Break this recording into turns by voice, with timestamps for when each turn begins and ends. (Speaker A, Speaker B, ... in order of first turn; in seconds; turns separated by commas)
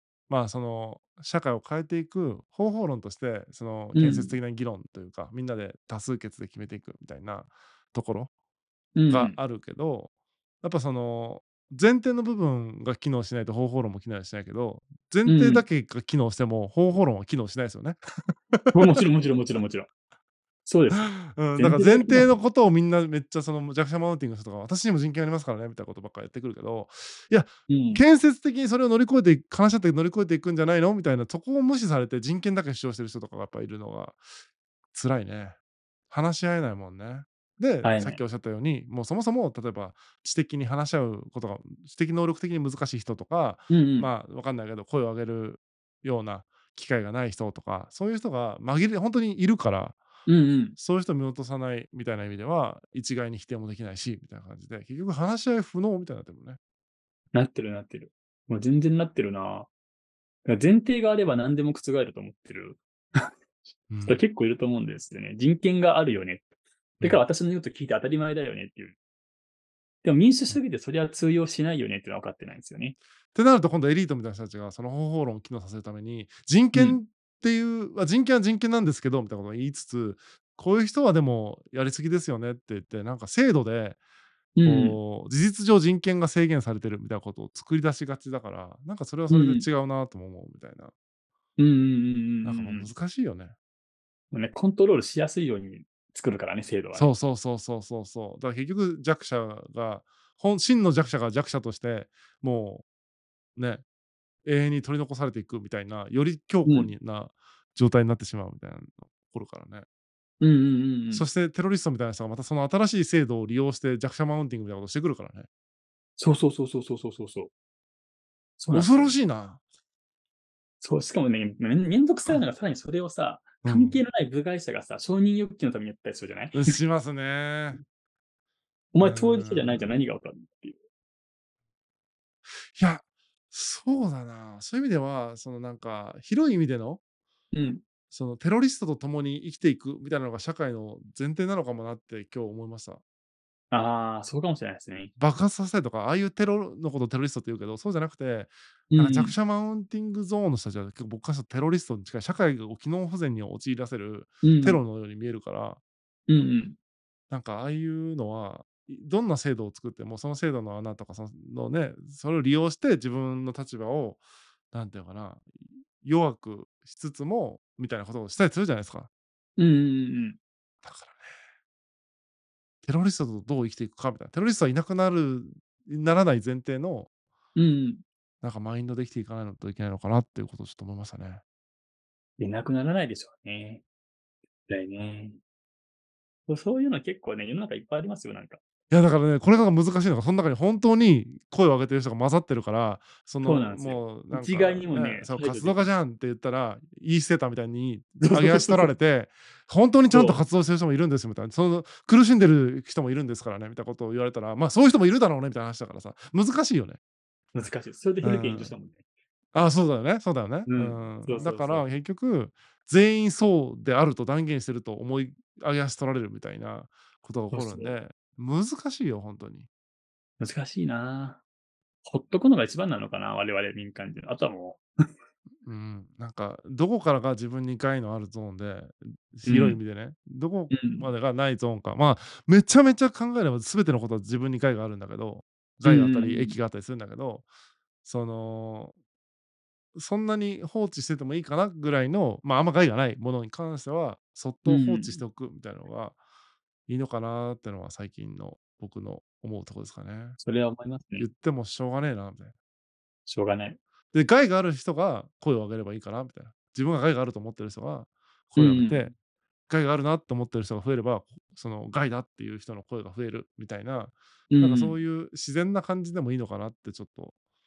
Speaker A: 0.3-8.3, Speaker B: 3.9-4.4, Speaker B: 9.0-9.4, Speaker A: 9.1-10.1, Speaker A: 10.6-18.0, Speaker B: 15.3-15.7, Speaker A: 18.5-19.0, Speaker B: 18.7-19.9, Speaker B: 20.7-22.3, Speaker A: 20.9-34.2, Speaker B: 27.7-28.0, Speaker A: 34.9-35.6, Speaker A: 36.1-50.0, Speaker B: 37.8-38.2, Speaker B: 43.7-44.1, Speaker B: 50.3-50.8, Speaker A: 50.8-56.6, Speaker B: 57.3-59.7, Speaker B: 60.5-63.3, Speaker A: 63.9-64.2, Speaker B: 64.0-66.5, Speaker B: 67.0-69.0, Speaker B: 70.0-73.0, Speaker A: 73.3-84.0, Speaker B: 76.7-77.0, Speaker B: 84.6-85.0, Speaker A: 84.6-90.9, Speaker B: 89.3-89.7, Speaker B: 91.6-92.9, Speaker A: 92.4-93.5, Speaker B: 94.3-97.1, Speaker A: 96.9-102.8, Speaker A: 103.6-103.8, Speaker A: 104.5-109.9, Speaker B: 106.7-106.9, Speaker B: 110.4-111.3, Speaker A: 111.1-115.5, Speaker B: 116.2-117.5, Speaker B: 118.6-119.2, Speaker A: 118.7-119.6, Speaker B: 120.8-126.7, Speaker A: 123.6-124.0, Speaker A: 126.5-127.8, Speaker B: 128.9-130.8, Speaker A: 129.0-129.9, Speaker A: 132.7-137.0, Speaker B: 137.5-137.8, Speaker A: 138.1-143.0, Speaker B: 143.7-145.1, Speaker A: 145.2-155.8, Speaker B: 148.9-149.4, Speaker B: 154.4-154.8, Speaker B: 156.3-156.8, Speaker A: 157.3-169.1, Speaker B: 169.6-170.4, Speaker A: 170.8-171.3, Speaker A: 172.8-177.1, Speaker B: 177.6-178.0, Speaker A: 178.4-181.4, Speaker B: 182.4-183.8, Speaker B: 184.7-185.4, Speaker B: 186.5-188.6, Speaker A: 188.9-207.0, Speaker B: 193.4-195.9, Speaker B: 198.2-198.9, Speaker B: 200.1-200.4, Speaker B: 207.5-209.0, Speaker A: 208.2-208.8, Speaker A: 209.5-219.7, Speaker B: 210.7-211.8, Speaker B: 217.5-217.9, Speaker B: 220.4-221.4, Speaker B: 222.1-224.8, Speaker A: 225.7-237.5, Speaker B: 229.5-229.8, Speaker B: 230.7-231.1, Speaker B: 235.8-236.6, Speaker A: 238.0-238.9, Speaker A: 239.9-246.2, Speaker B: 244.7-245.2, Speaker A: 246.9-250.4, Speaker B: 250.4-251.3, Speaker A: 251.2-252.5, Speaker B: 253.3-253.8, Speaker A: 254.1-259.1, Speaker B: 258.6-259.1, Speaker A: 259.7-267.3, Speaker B: 264.5-265.0